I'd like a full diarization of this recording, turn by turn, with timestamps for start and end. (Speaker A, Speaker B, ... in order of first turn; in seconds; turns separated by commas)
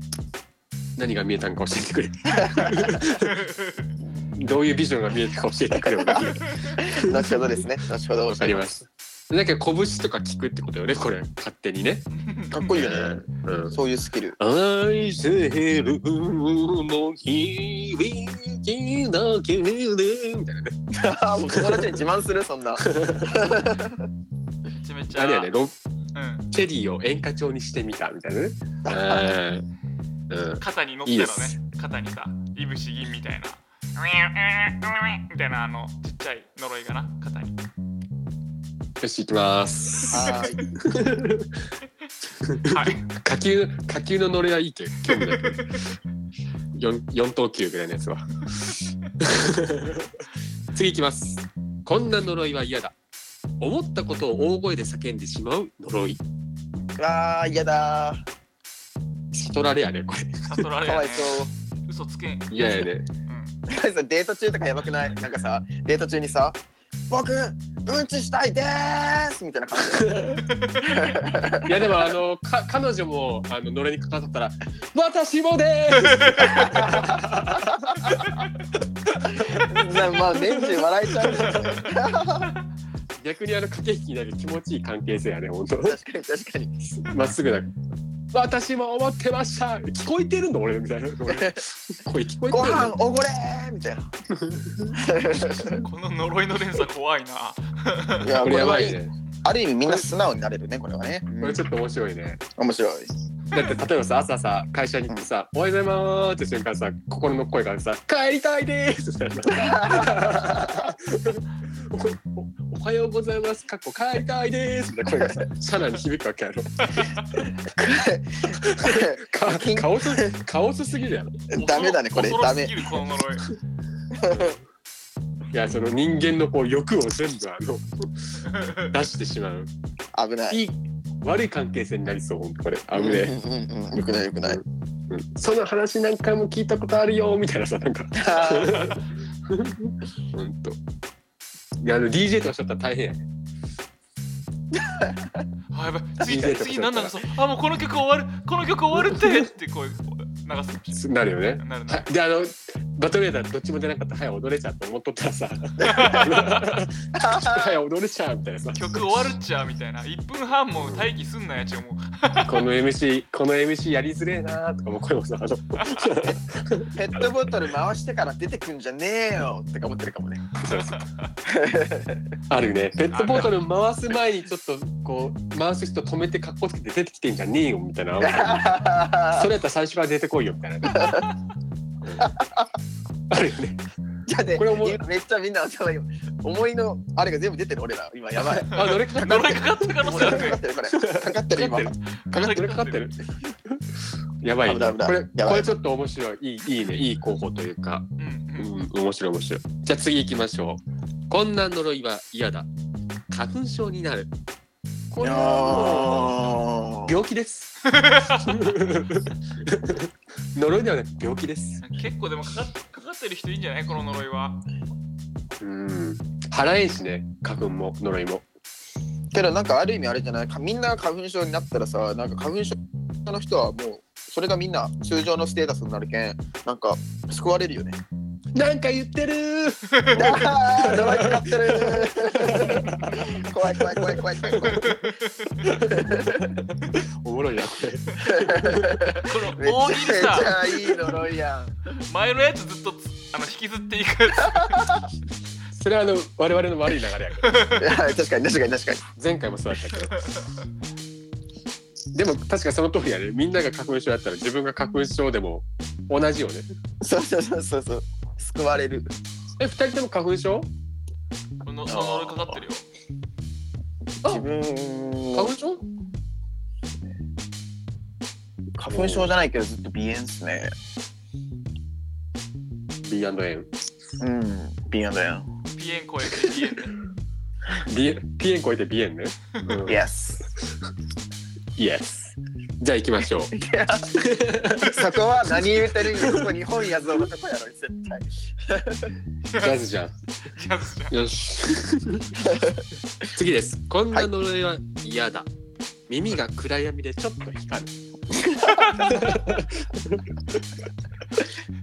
Speaker A: 0.9-3.4, Speaker B: 2.3-3.0, Speaker C: 3.2-3.9, Speaker A: 4.3-7.6, Speaker B: 5.8-6.3, Speaker B: 6.8-8.6, Speaker A: 8.3-12.1, Speaker C: 12.1-12.6, Speaker B: 12.5-14.4, Speaker A: 12.6-13.8, Speaker A: 14.4-20.8, Speaker B: 20.9-24.0, Speaker A: 21.4-22.0, Speaker A: 22.8-23.4, Speaker C: 24.8-25.5, Speaker A: 25.1-25.7, Speaker C: 26.1-26.4, Speaker A: 26.5-29.6, Speaker B: 28.9-29.2, Speaker A: 30.3-31.6, Speaker C: 30.6-37.6, Speaker A: 39.0-41.5, Speaker B: 40.1-40.6, Speaker A: 42.4-45.6, Speaker C: 42.6-43.0, Speaker C: 45.0-45.8, Speaker A: 46.7-50.1, Speaker A: 50.7-52.9, Speaker A: 53.6-56.2, Speaker B: 57.0-58.2, Speaker A: 59.3-60.6, Speaker C: 60.4-63.5, Speaker B: 60.8-61.5, Speaker A: 62.5-63.1, Speaker B: 63.7-66.6, Speaker B: 67.1-72.0, Speaker A: 69.8-70.4, Speaker C: 70.5-70.8, Speaker A: 71.6-78.1, Speaker B: 76.4-78.1, Speaker B: 79.3-82.5, Speaker A: 79.4-81.8, Speaker A: 83.2-86.0, Speaker B: 85.8-86.8, Speaker A: 87.0-87.7, Speaker A: 88.3-93.0, Speaker B: 91.3-91.6, Speaker B: 92.5-94.1, Speaker A: 94.3-95.0, Speaker B: 94.9-95.8, Speaker C: 95.8-98.5, Speaker B: 98.2-101.6, Speaker A: 98.4-99.1, Speaker A: 101.4-102.4, Speaker B: 102.6-103.1, Speaker A: 103.5-117.0, Speaker B: 109.5-110.9, Speaker C: 116.8-117.2, Speaker B: 117.7-120.4, Speaker A: 118.5-121.4, Speaker C: 121.5-123.5, Speaker B: 121.5-122.8, Speaker B: 124.1-124.6, Speaker A: 124.3-124.6, Speaker A: 125.5-128.4, Speaker C: 128.4-128.9, Speaker A: 128.9-129.7, Speaker B: 130.1-130.6, Speaker A: 130.5-133.3, Speaker B: 132.9-134.6, Speaker A: 134.4-140.8, Speaker B: 138.2-138.8, Speaker A: 141.8-143.2, Speaker B: 144.7-145.3, Speaker C: 145.7-152.1, Speaker A: 146.2-147.2, Speaker A: 148.9-149.5, Speaker A: 150.9-159.0, Speaker C: 155.8-156.6, Speaker B: 155.8-156.1, Speaker B: 157.1-157.7, Speaker C: 158.7-162.6, Speaker A: 160.7-161.1, Speaker A: 162.4-167.3, Speaker B: 166.9-170.5, Speaker A: 170.6-171.0, Speaker C: 170.7-171.3, Speaker B: 171.5-172.2, Speaker A: 172.5-178.8, Speaker C: 173.1-173.5, Speaker B: 178.2-179.5, Speaker A: 179.3-181.2, Speaker B: 180.9-181.2, Speaker A: 182.0-182.3, Speaker B: 182.2-182.7, Speaker A: 183.3-183.8, Speaker B: 184.3-188.9, Speaker A: 184.5-185.0, Speaker A: 188.4-193.2, Speaker C: 188.8-190.6, Speaker B: 190.0-191.9, Speaker C: 192.1-193.1, Speaker A: 194.4-202.7, Speaker B: 194.7-195.7, Speaker C: 198.2-198.7, Speaker A: 203.3-204.3, Speaker A: 205.1-206.5, Speaker B: 205.2-207.1, Speaker A: 207.0-207.7, Speaker C: 207.9-208.6, Speaker A: 208.4-211.8, Speaker C: 211.8-214.6, Speaker A: 215.6-218.4, Speaker B: 219.3-228.0, Speaker A: 228.5-235.0, Speaker B: 230.1-234.8, Speaker C: 234.6-235.6, Speaker A: 235.6-239.1, Speaker B: 235.9-236.5, Speaker B: 238.2-241.8, Speaker C: 239.2-240.7, Speaker C: 242.1-245.0, Speaker A: 245.7-247.7, Speaker C: 247.4-247.8, Speaker B: 247.8-249.1, Speaker A: 249.2-250.2, Speaker C: 250.1-250.5, Speaker A: 252.1-256.7, Speaker B: 257.0-259.1, Speaker A: 259.6-260.7, Speaker C: 261.6-262.9, Speaker B: 261.9-262.6, Speaker B: 264.2-265.5, Speaker A: 265.3-265.8, Speaker B: 268.8-270.7, Speaker A: 268.9-269.3, Speaker A: 273.0-273.7, Speaker B: 274.2-275.5, Speaker C: 275.7-276.9, Speaker A: 277.9-280.0, Speaker B: 279.9-280.4, Speaker A: 281.8-283.5, Speaker B: 283.5-284.3, Speaker A: 284.1-285.0, Speaker B: 284.8-289.1, Speaker A: 286.0-286.5, Speaker A: 289.6-290.1, Speaker C: 290.5-291.1, Speaker A: 291.1-292.4, Speaker B: 292.4-292.8, Speaker A: 293.3-295.5, Speaker A: 296.1-297.9, Speaker B: 298.4-298.9, Speaker C: 298.6-299.1, Speaker A: 299.0-300.6